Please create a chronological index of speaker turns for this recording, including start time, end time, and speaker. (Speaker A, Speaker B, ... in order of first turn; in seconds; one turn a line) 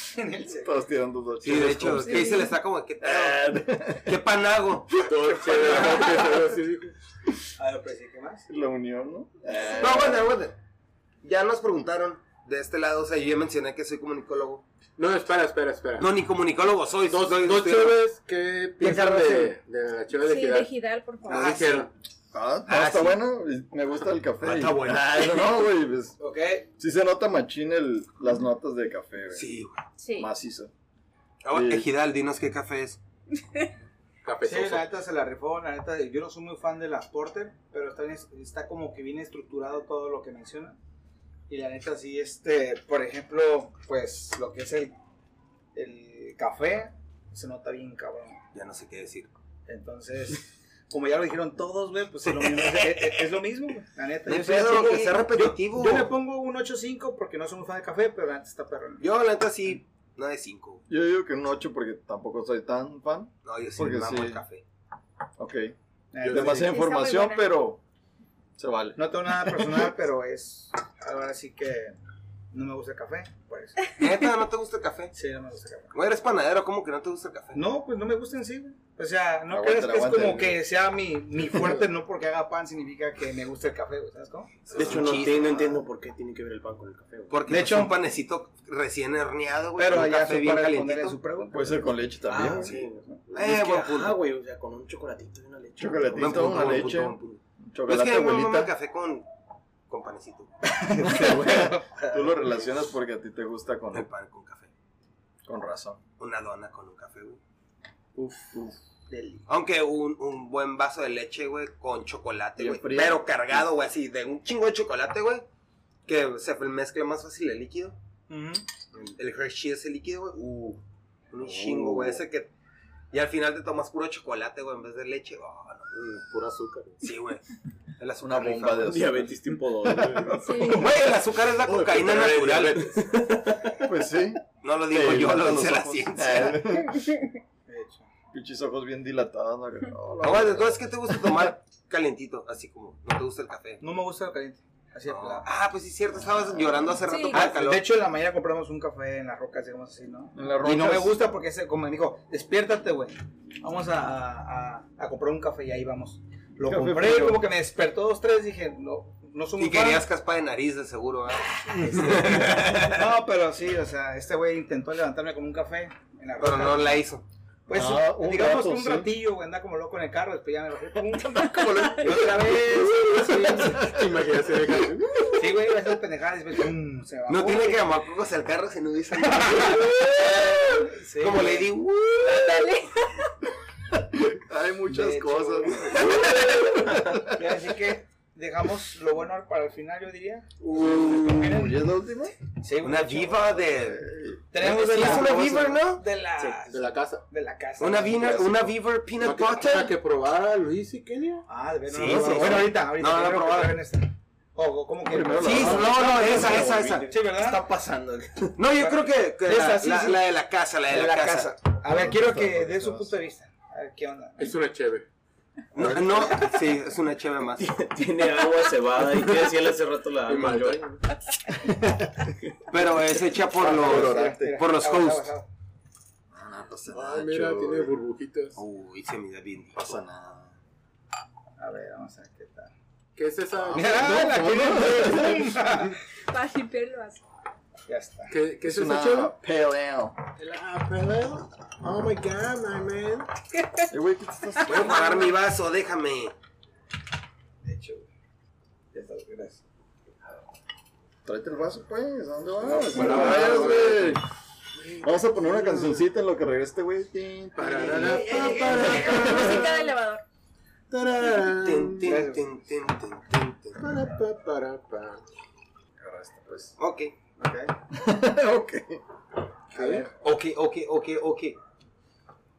Speaker A: 0.1-0.7
Speaker B: 0.5-2.4
Speaker C: 1.4-6.1
Speaker D: 2.0-2.5
Speaker B: 3.0-4.2
Speaker E: 5.1-7.0
Speaker A: 7.6-8.5
Speaker B: 8.5-10.3
Speaker C: 9.6-10.6
Speaker C: 11.2-14.6
Speaker E: 15.0-16.1
Speaker C: 16.0-18.0
Speaker E: 17.1-20.7
Speaker C: 19.1-19.5
Speaker D: 20.2-21.7
Speaker E: 21.3-21.9
Speaker B: 22.3-26.2
Speaker C: 22.7-23.2
Speaker C: 24.4-25.5
Speaker A: 26.2-26.7
Speaker B: 26.8-29.5
Speaker C: 29.3-29.8
Speaker D: 30.0-30.3
Speaker B: 30.2-30.7
Speaker C: 31.4-33.0
Speaker B: 31.5-31.9
Speaker E: 34.2-34.9
Speaker A: 34.4-40.8
Speaker A: 41.5-44.9
Speaker A: 45.8-48.4
Speaker C: 48.5-49.3
Speaker A: 49.7-59.0
Speaker C: 52.3-53.1
Speaker C: 54.3-56.1
Speaker C: 59.0-60.8
Speaker B: 60.9-64.4
Speaker C: 63.4-64.6
Speaker B: 65.4-67.8
Speaker A: 66.1-66.7
Speaker E: 66.2-66.6
Speaker D: 66.5-67.5
Speaker B: 68.6-69.9
Speaker A: 69.0-72.0
Speaker A: 72.5-74.0
Speaker C: 73.9-75.2
Speaker A: 75.1-75.9
Speaker C: 75.9-77.6
Speaker A: 77.5-84.6
Speaker B: 79.5-80.6
Speaker C: 84.7-85.8
Speaker F: 84.7-87.4
Speaker C: 87.3-91.2
Speaker A: 87.5-88.0
Speaker A: 89.8-91.9
Speaker B: 91.5-92.8
Speaker F: 92.3-96.5
Speaker C: 92.4-94.2
Speaker B: 95.8-98.7
Speaker C: 96.2-99.3
Speaker C: 99.9-100.7
Speaker A: 100.7-101.9
Speaker B: 101.0-104.1
Speaker C: 103.9-104.7
Speaker B: 105.5-106.0
Speaker C: 106.2-107.4
Speaker B: 108.2-108.8
Speaker C: 109.5-115.5
Speaker B: 112.6-113.6
Speaker C: 116.1-118.0
Speaker A: 118.3-118.6
Speaker C: 119.0-120.8
Speaker C: 121.3-122.5
Speaker B: 121.4-122.2
Speaker C: 123.1-125.9
Speaker E: 125.9-127.0
Speaker C: 127.0-127.5
Speaker C: 128.0-129.1
Speaker B: 128.2-130.9
Speaker F: 128.8-130.4
Speaker E: 129.9-130.3
Speaker D: 130.4-130.9
Speaker C: 130.5-133.0
Speaker E: 131.7-133.2
Speaker F: 133.0-133.9
Speaker B: 133.8-137.1
Speaker C: 134.6-136.7
Speaker A: 137.7-138.1
Speaker B: 138.3-141.5
Speaker C: 140.2-143.8
Speaker A: 143.8-145.5
Speaker C: 145.1-147.9
Speaker D: 147.1-147.5
Speaker A: 147.3-160.1
Speaker B: 150.3-151.2
Speaker B: 156.7-157.4
Speaker C: 159.6-163.1
Speaker A: 161.7-167.0
Speaker C: 166.4-167.2
Speaker A: 167.7-173.8
Speaker B: 167.7-169.1
Speaker D: 171.4-172.2
Speaker B: 171.4-174.0
Speaker E: 172.7-175.6
Speaker A: 175.3-177.9
Speaker C: 177.3-182.6
Speaker A: 179.2-181.7
Speaker D: 182.2-183.3
Speaker B: 184.1-187.5
Speaker A: 184.9-191.8
Speaker C: 190.7-191.0
Speaker B: 190.7-192.4
Speaker A: 192.6-193.6
Speaker C: 192.8-194.0
Speaker B: 193.6-194.5
Speaker A: 194.5-198.4
Speaker C: 194.6-196.1
Speaker E: 196.7-197.3
Speaker C: 197.8-199.9
Speaker B: 198.2-198.5
Speaker E: 199.2-201.5
Speaker A: 201.5-206.1
Speaker C: 201.9-203.8
Speaker B: 202.0-202.7
Speaker B: 205.1-207.0
Speaker C: 205.4-207.2
Speaker F: 205.9-208.6
Speaker A: 207.1-207.7
Speaker C: 208.6-211.5
Speaker A: 208.7-210.2
Speaker A: 210.9-214.6
Speaker B: 211.9-213.1
Speaker E: 214.4-215.1
Speaker C: 215.8-217.8
Speaker B: 215.8-216.4
Speaker F: 217.6-220.8
Speaker E: 219.1-219.6
Speaker E: 220.2-221.0
Speaker B: 221.7-222.8
Speaker C: 222.7-225.3
Speaker B: 223.5-224.6
Speaker A: 223.7-225.5
Speaker B: 226.3-227.9
Speaker E: 226.9-228.6
Speaker C: 228.6-230.0
Speaker B: 229.8-230.5
Speaker A: 231.6-232.7
Speaker E: 233.2-235.7
Speaker A: 233.7-236.0
Speaker B: 233.8-235.4
Speaker D: 236.3-237.2
Speaker A: 237.9-238.3
Speaker E: 238.3-239.3
Speaker B: 238.7-240.2
Speaker E: 240.4-243.3
Speaker D: 243.6-243.9
Speaker B: 243.9-245.2
Speaker D: 244.6-245.3
Speaker C: 244.6-246.3
Speaker A: 247.6-248.1
Speaker A: 248.9-249.6
Speaker B: 251.2-254.2
Speaker E: 252.7-254.2
Speaker A: 252.9-253.9
Speaker A: 254.9-255.3
Speaker B: 255.0-259.8
Speaker E: 255.6-255.9
Speaker E: 257.6-259.8
Speaker C: 258.0-259.6
Speaker D: 258.9-260.2
Speaker E: 260.9-262.2
Speaker C: 261.2-263.8
Speaker A: 262.0-262.5
Speaker E: 263.8-265.2
Speaker B: 266.0-266.8
Speaker C: 266.8-267.2
Speaker A: 267.4-267.7
Speaker B: 267.9-269.0
Speaker A: 269.7-270.1
Speaker E: 269.8-270.1
Speaker C: 270.2-271.6